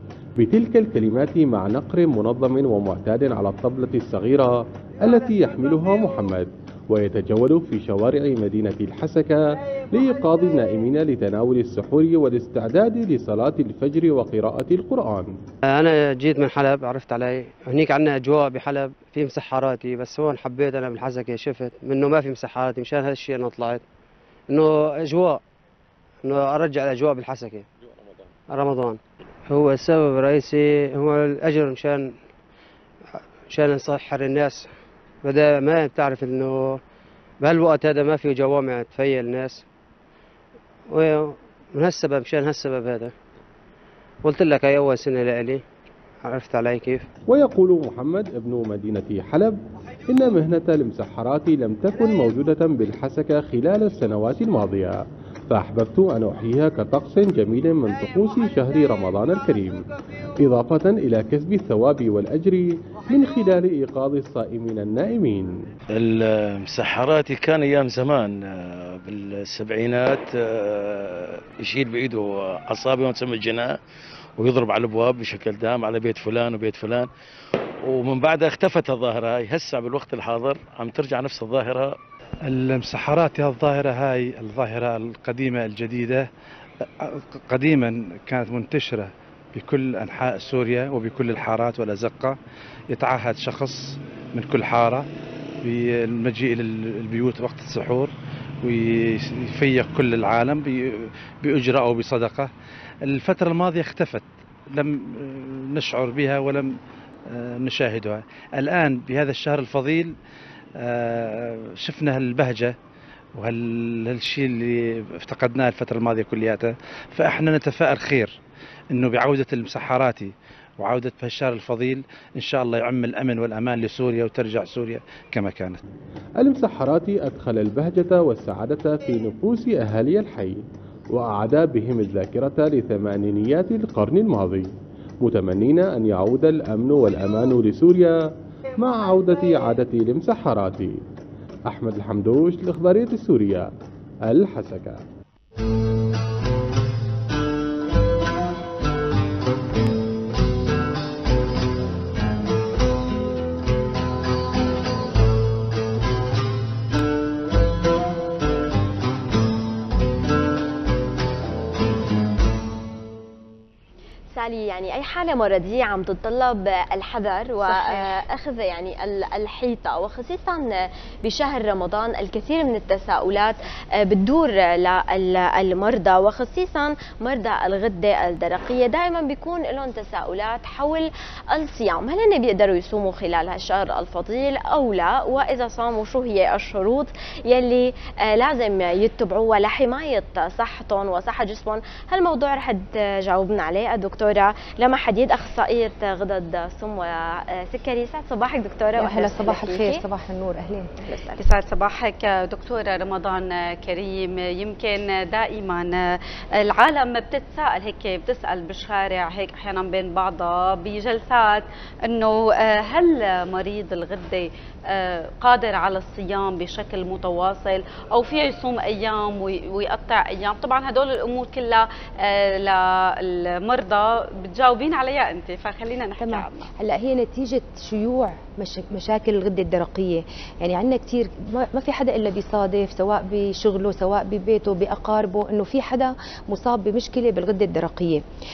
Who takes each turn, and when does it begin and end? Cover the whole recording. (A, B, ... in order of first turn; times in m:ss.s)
0:00.4-0:15.4 A
0:15.7-0:23.8 B
0:24.5-0:25.4 B
0:26.2-0:27.7 B
0:28.5-0:32.1 B
0:33.5-0:34.7 B
0:35.2-0:36.8 B
0:37.4-0:39.6 B
0:40.9-0:43.1 B
0:44.2-0:45.6 B
0:46.2-0:47.1 B
0:47.3-0:59.9 A
1:00.4-1:05.5 A
1:06.0-1:13.8 C
1:14.4-1:17.1 C
1:17.9-1:22.0 C
1:22.5-1:26.3 D
1:27.0-1:32.4 D
1:32.9-1:35.1 D
1:35.6-1:38.1 D
1:38.6-1:42.5 D
1:43.1-1:46.7 D
1:47.3-1:50.2 D
1:50.8-1:52.8 D
1:53.4-1:58.4 D
1:58.9-2:05.8 D
2:06.4-2:18.2 A
2:18.8-2:21.0 A
2:21.7-2:23.7 A
2:24.3-2:25.0 A
2:44.4-3:20.0 E
3:19.0-3:20.9 F
3:21.0-3:21.4 E
3:21.4-3:46.7 G
3:46.2-3:58.2 F